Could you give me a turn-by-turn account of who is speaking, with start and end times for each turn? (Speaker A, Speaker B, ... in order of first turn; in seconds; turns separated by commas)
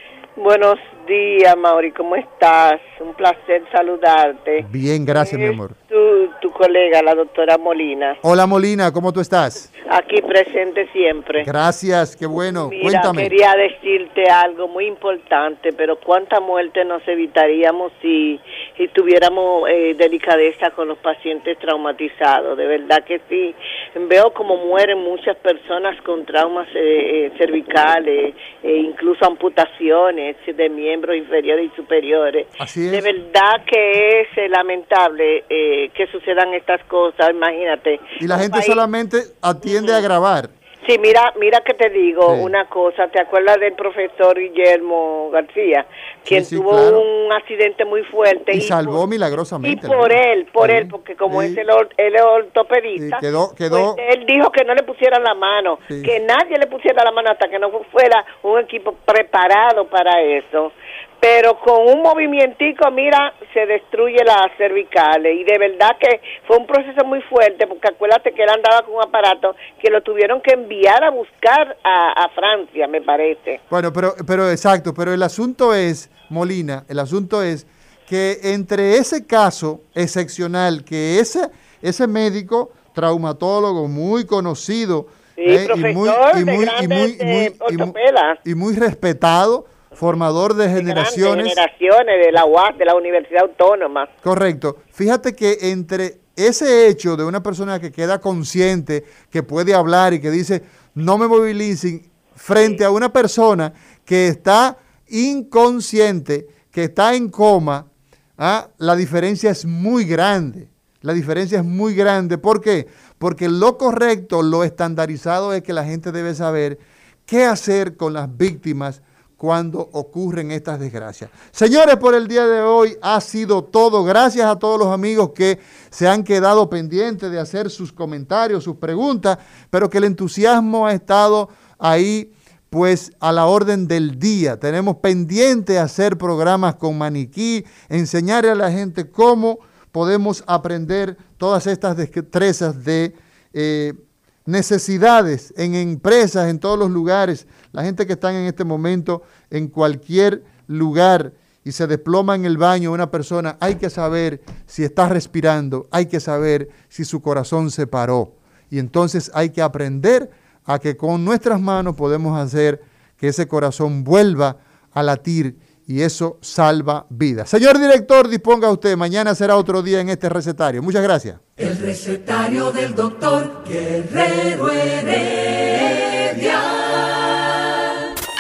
Speaker A: 0.4-8.2, Speaker B: 4.6-5.8, Speaker B: 8.2-9.7, Speaker A: 9.8-11.5, Speaker B: 11.4-13.3, Speaker A: 12.5-38.9, Speaker B: 32.6-33.1, Speaker B: 38.2-40.5, Speaker A: 39.7-40.0, Speaker A: 40.8-49.0, Speaker B: 42.2-42.5, Speaker B: 46.2-47.1, Speaker B: 48.5-51.6, Speaker A: 49.6-73.6, Speaker B: 53.0-54.0, Speaker B: 55.9-56.1, Speaker B: 73.7-91.6, Speaker A: 85.4-88.4, Speaker A: 90.7-94.1, Speaker B: 94.2-171.4, Speaker A: 102.5-102.8, Speaker C: 171.6-177.4